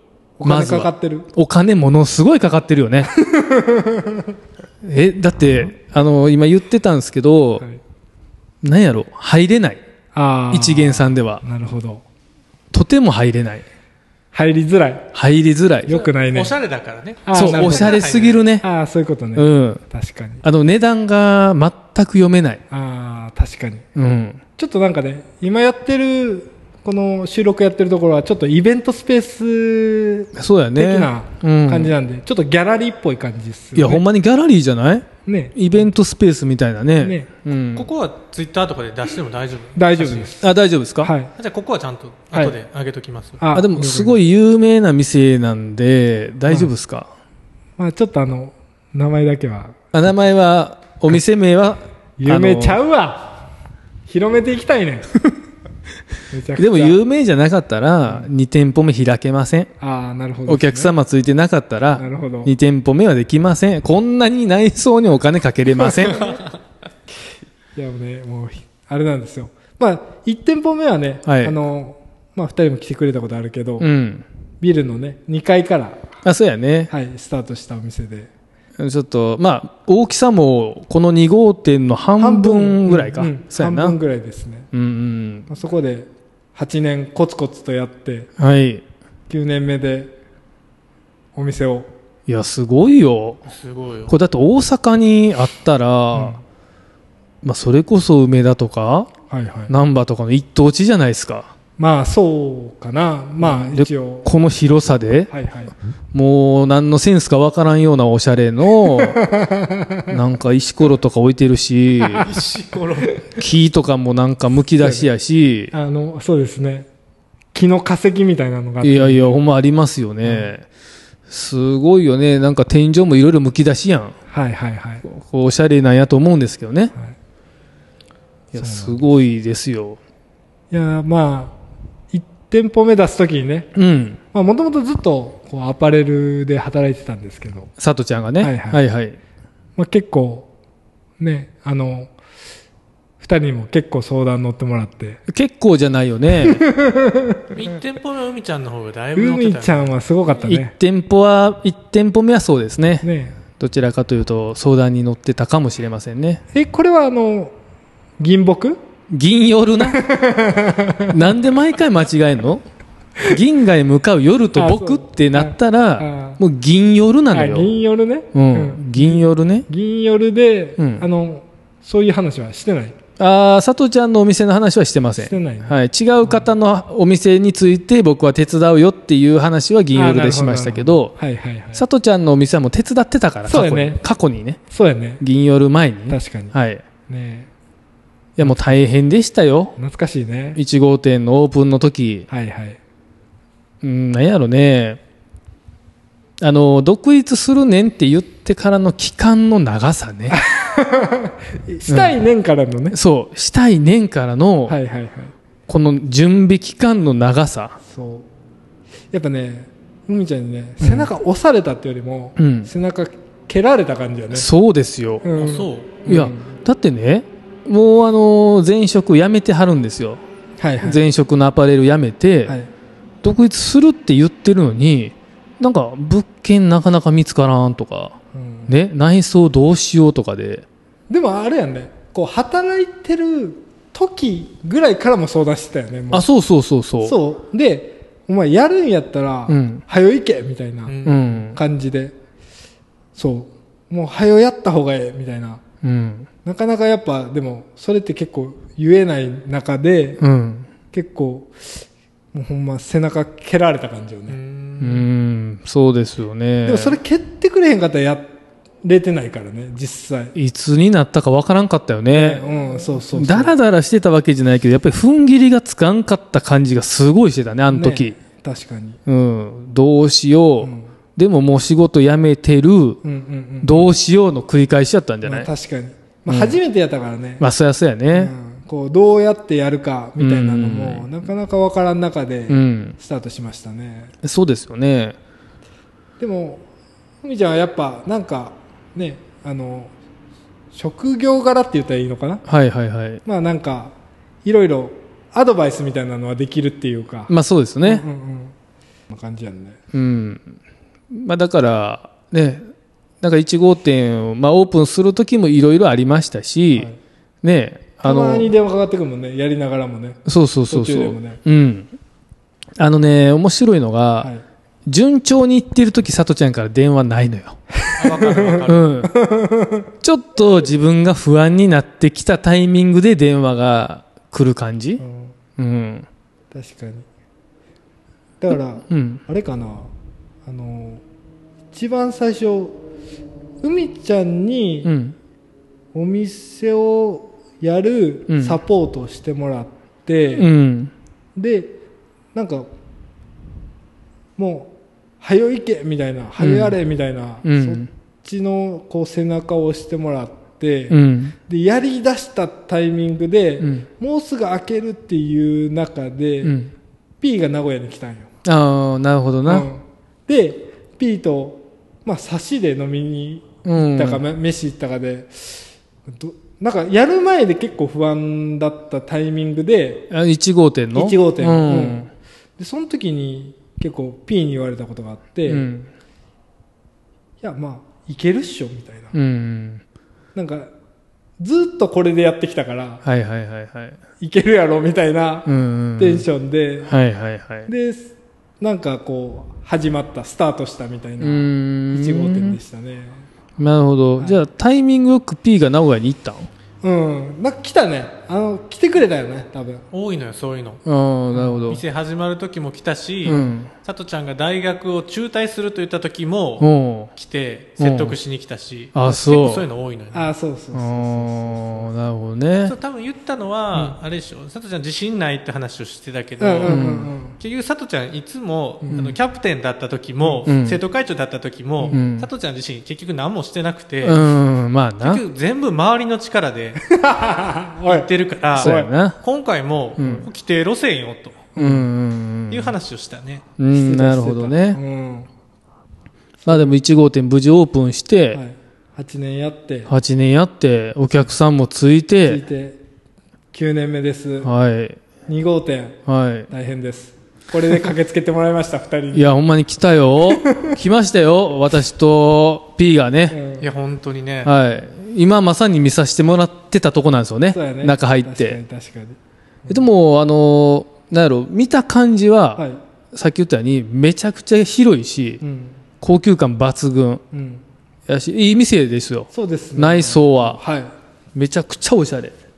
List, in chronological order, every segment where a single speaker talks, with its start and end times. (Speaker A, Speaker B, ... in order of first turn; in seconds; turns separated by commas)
Speaker A: 0.4-1.3, Speaker B: 0.4-3.1, Speaker A: 3.1-4.3, Speaker B: 4.8-7.6, Speaker B: 8.6-9.8, Speaker A: 10.1-12.0, Speaker B: 10.5-11.4, Speaker B: 12.7-13.7, Speaker A: 14.3-15.1, Speaker B: 15.1-16.0, Speaker A: 15.8-16.5, Speaker C: 16.2-18.4, Speaker A: 17.2-18.0, Speaker B: 17.3-18.6, Speaker A: 18.6-20.4, Speaker B: 19.4-19.8, Speaker B: 20.4-22.6, Speaker A: 22.7-23.9, Speaker B: 23.9-24.4, Speaker A: 24.6-34.0, Speaker B: 30.3-31.9, Speaker B: 33.7-37.9, Speaker A: 35.2-35.9, Speaker A: 37.0-37.3, Speaker C: 37.7-40.3, Speaker A: 39.8-40.4, Speaker B: 40.4-41.1, Speaker A: 41.0-41.3, Speaker C: 41.4-43.4, Speaker A: 43.4-44.2, Speaker B: 43.5-47.1, Speaker A: 47.8-49.7, Speaker B: 49.9-52.8, Speaker A: 52.2-53.5, Speaker A: 54.1-55.1, Speaker A: 56.3-57.0, Speaker B: 56.5-59.7, Speaker A: 59.8-60.9, Speaker B: 60.5-66.3, Speaker A: 62.0-62.5, Speaker A: 65.8-66.3, Speaker A: 67.8-73.9, Speaker B: 71.2-71.5, Speaker B: 73.8-74.2, Speaker A: 74.6-76.0, Speaker B: 76.2-76.9, Speaker A: 76.9-78.3, Speaker B: 78.8-84.0, Speaker A: 82.2-84.7, Speaker B: 84.7-85.5, Speaker A: 85.5-88.3, Speaker B: 88.4-88.8, Speaker A: 89.3-90.1, Speaker A: 91.3-91.9, Speaker B: 92.3-93.5, Speaker C: 93.5-94.1, Speaker B: 94.1-96.4, Speaker A: 96.1-96.4, Speaker B: 97.4-99.1, Speaker A: 99.3-99.7, Speaker B: 99.7-101.5, Speaker A: 101.8-104.3, Speaker B: 103.4-105.3, Speaker A: 105.3-105.7, Speaker B: 106.1-109.2, Speaker A: 108.9-110.1, Speaker B: 110.1-112.3, Speaker C: 112.1-113.2, Speaker B: 113.3-115.7, Speaker A: 114.8-115.1, Speaker A: 115.7-116.9, Speaker A: 117.5-119.4, Speaker B: 118.8-120.6, Speaker A: 120.2-120.5, Speaker B: 121.3-124.2, Speaker A: 124.3-125.0, Speaker B: 125.0-126.9, Speaker B: 128.5-130.0, Speaker A: 128.5-129.2, Speaker A: 130.7-131.6, Speaker A: 132.1-133.7, Speaker B: 133.7-134.2, Speaker A: 134.3-137.7, Speaker B: 137.8-139.2, Speaker A: 138.4-138.8, Speaker A: 139.8-140.5, Speaker A: 141.2-142.1, Speaker A: 143.2-145.2, Speaker B: 145.3-146.6, Speaker A: 146.4-147.5, Speaker C: 147.5-149.9, Speaker A: 149.1-150.7, Speaker B: 150.4-153.1, Speaker A: 153.0-153.4, Speaker B: 153.6-156.4, Speaker A: 156.5-157.5, Speaker A: 158.2-158.8, Speaker B: 159.1-160.0, Speaker A: 159.8-161.2, Speaker B: 161.1-162.6, Speaker B: 163.2-167.7, Speaker A: 164.5-166.4, Speaker A: 167.3-172.9, Speaker B: 168.3-169.7, Speaker B: 170.8-171.0, Speaker B: 173.2-181.1, Speaker A: 175.2-176.4, Speaker A: 179.9-181.8, Speaker B: 181.7-184.6, Speaker A: 183.4-184.0, Speaker A: 184.7-185.2, Speaker B: 185.2-186.8, Speaker A: 186.1-186.6, Speaker A: 187.1-187.5, Speaker B: 188.4-189.7, Speaker A: 188.4-188.9, Speaker A: 189.8-190.6, Speaker B: 190.6-192.3, Speaker A: 192.3-192.8, Speaker B: 193.8-195.0, Speaker B: 196.4-200.4, Speaker A: 200.3-202.9, Speaker B: 201.9-202.2, Speaker B: 202.9-204.8, Speaker A: 204.7-205.3, Speaker B: 205.7-207.8, Speaker A: 207.8-208.2, Speaker A: 209.1-214.5, Speaker B: 210.8-211.1, Speaker B: 212.4-212.7, Speaker B: 214.3-215.2, Speaker A: 215.2-216.6, Speaker C: 215.3-216.0, Speaker B: 216.1-220.2, Speaker A: 220.6-221.0, Speaker B: 220.8-222.6, Speaker B: 223.2-228.2, Speaker A: 228.3-228.7, Speaker B: 228.7-230.6, Speaker A: 231.1-236.3, Speaker B: 236.1-237.2, Speaker A: 237.0-242.2, Speaker B: 239.5-239.8, Speaker C: 240.9-241.3, Speaker B: 241.0-241.6, Speaker A: 243.1-245.6, Speaker B: 245.8-246.3, Speaker A: 246.4-250.2, Speaker B: 250.2-250.7, Speaker A: 250.9-254.4, Speaker C: 254.3-255.1, Speaker B: 254.8-257.0, Speaker A: 256.6-258.3, Speaker A: 258.8-260.3, Speaker B: 260.3-268.1, Speaker A: 262.1-263.6, Speaker A: 267.7-269.0, Speaker B: 269.1-273.0, Speaker A: 270.6-270.9, Speaker A: 273.0-273.9, Speaker B: 273.6-275.5, Speaker A: 275.2-277.4, Speaker B: 276.3-276.6, Speaker B: 277.4-278.3, Speaker A: 278.1-284.1, Speaker B: 280.2-281.1, Speaker B: 282.5-283.0, Speaker B: 284.2-285.1, Speaker A: 286.2-286.6, Speaker A: 287.2-289.9, Speaker A: 290.7-292.4, Speaker B: 292.4-293.2, Speaker A: 293.2-298.5, Speaker B: 297.3-298.0, Speaker A: 299.1-299.8, Speaker B: 299.9-300.6, Speaker B: 301.1-302.6, Speaker B: 303.2-306.9, Speaker B: 307.4-308.5, Speaker A: 308.0-311.4, Speaker B: 310.2-311.9, Speaker B: 312.8-314.3, Speaker B: 314.9-317.6, Speaker A: 317.8-319.9, Speaker C: 317.9-319.0, Speaker B: 318.6-319.1, Speaker B: 320.0-325.0, Speaker A: 325.0-325.3, Speaker B: 325.6-326.1, Speaker A: 326.5-327.1, Speaker A: 328.4-329.9, Speaker B: 328.9-329.2, Speaker A: 330.4-331.0, Speaker A: 331.7-332.8, Speaker A: 333.6-334.9, Speaker B: 334.8-335.1, Speaker A: 335.9-340.5, Speaker B: 338.3-338.6, Speaker B: 340.4-340.9, Speaker A: 341.4-341.7, Speaker A: 342.3-342.7, Speaker A: 344.4-356.6, Speaker B: 346.4-346.8, Speaker B: 347.4-347.9, Speaker B: 350.9-351.4, Speaker B: 353.6-353.9, Speaker B: 356.4-356.7, Speaker A: 357.2-358.3, Speaker B: 358.4-359.7, Speaker A: 359.4-370.1, Speaker B: 363.6-364.2, Speaker B: 370.1-372.1, Speaker A: 370.9-372.1, Speaker A: 372.6-375.7, Speaker B: 375.5-375.9, Speaker A: 377.4-379.1, Speaker B: 379.1-379.8, Speaker A: 380.3-380.7, Speaker A: 381.4-383.0, Speaker B: 383.0-384.0, Speaker A: 384.2-386.9, Speaker B: 385.4-386.2, Speaker B: 386.9-387.7, Speaker A: 387.7-393.2, Speaker B: 391.2-392.6, Speaker B: 393.6-396.5, Speaker A: 396.8-399.8, Speaker C: 399.9-400.8, Speaker B: 400.8-401.8, Speaker A: 401.3-401.6, Speaker C: 401.6-410.3, Speaker B: 403.2-403.7, Speaker B: 406.6-407.1, Speaker B: 407.8-408.2, Speaker B: 408.9-409.6, Speaker A: 410.1-411.9, Speaker B: 410.7-412.7, Speaker C: 412.6-424.3, Speaker A: 416.4-417.4, Speaker B: 416.6-417.1, Speaker A: 418.8-419.1, Speaker B: 420.4-420.8, Speaker B: 421.9-422.3, Speaker B: 424.0-425.2, Speaker C: 425.0-426.8, Speaker A: 426.8-428.9, Speaker C: 427.9-431.5, Speaker B: 428.6-429.2, Speaker B: 430.0-430.3, Speaker A: 431.6-431.9, Speaker B: 431.6-432.7, Speaker C: 432.5-433.5, Speaker B: 433.6-434.8, Speaker A: 433.7-435.3, Speaker A: 436.4-436.7, Speaker B: 436.5-438.4, Speaker A: 438.3-439.9, Speaker B: 439.9-442.4, Speaker A: 442.2-442.8, Speaker A: 443.5-444.5, Speaker B: 444.4-445.0, Speaker A: 445.3-449.3, Speaker B: 446.1-446.5, Speaker B: 449.1-453.4, Speaker A: 450.3-450.8, Speaker A: 453.3-453.7, Speaker C: 453.6-454.5, Speaker B: 454.4-458.6, Speaker A: 457.5-459.9, Speaker B: 459.7-465.4, Speaker A: 465.4-465.8, Speaker B: 466.0-467.2, Speaker A: 467.3-467.6, Speaker B: 468.1-470.6, Speaker A: 469.3-470.9, Speaker B: 471.3-472.3